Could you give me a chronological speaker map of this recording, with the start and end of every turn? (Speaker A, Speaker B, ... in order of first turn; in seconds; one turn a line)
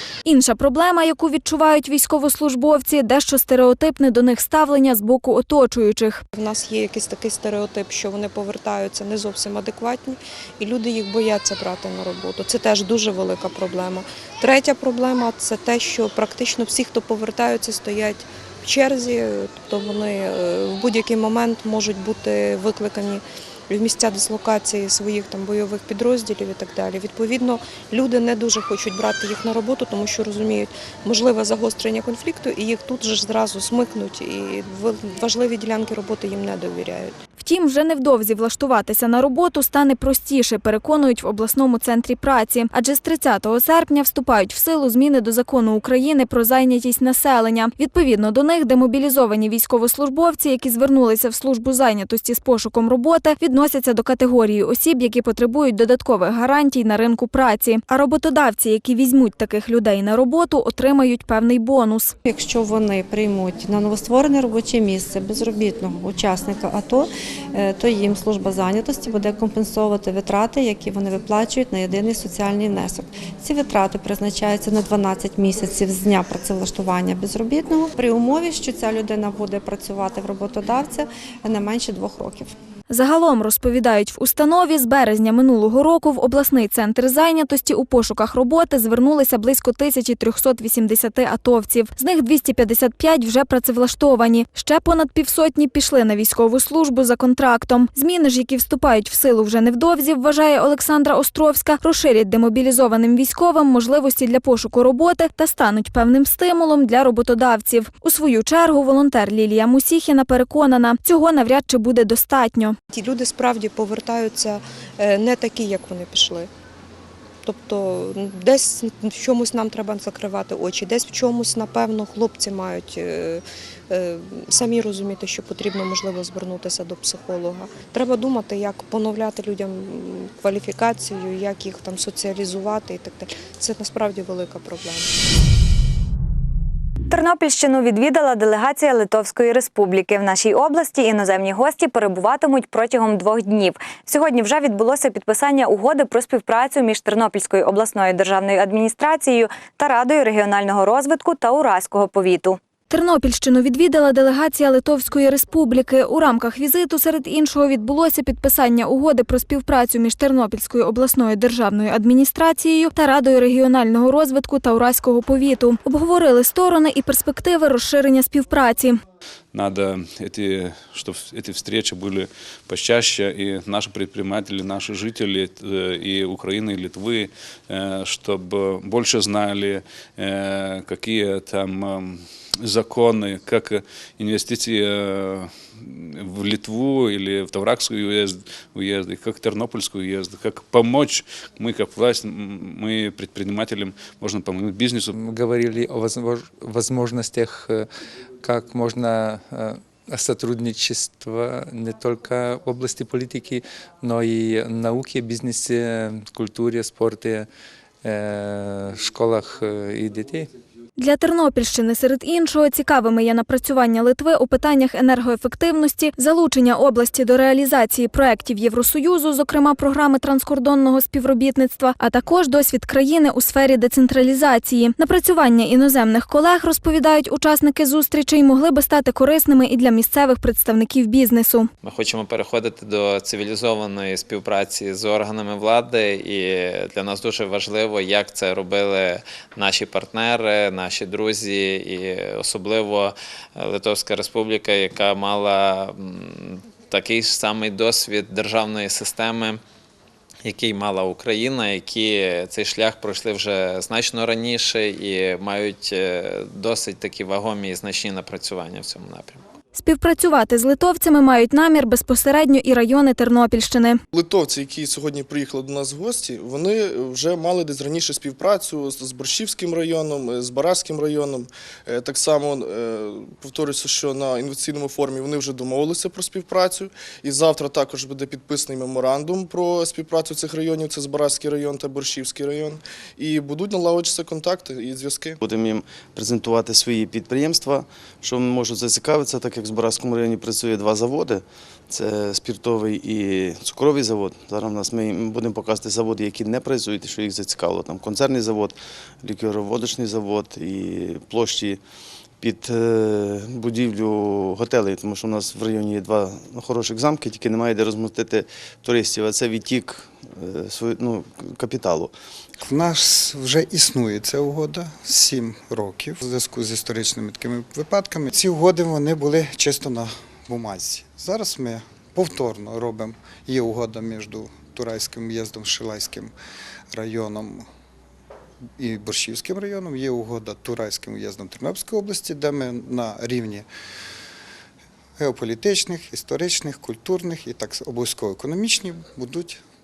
Speaker A: 0.2-6.2
Speaker B: 6.3-37.1
Speaker A: 37.4-62.1
Speaker C: 62.2-82.5
Speaker A: 82.9-112.8
Speaker B: 112.9-116.5
Speaker B: 117.5-135.1
Speaker D: 137.1-152.6
Speaker A: 152.9-169.0
Speaker E: 169.5-195.1
Speaker F: 195.2-197.9
Speaker F: 198.4-207.5
Speaker F: 208.0-210.5
Speaker A: 211.0-231.7
Speaker G: 231.8-249.6
Speaker G: 250.4-259.4
Speaker A: 259.7-264.0
Speaker H: 264.1-285.4
Speaker I: 285.4-301.8
Speaker I: 302.4-312.1
Speaker J: 312.6-326.3
Speaker J: 326.9-327.7
Speaker J: 328.8-333.7
Speaker J: 335.2-339.6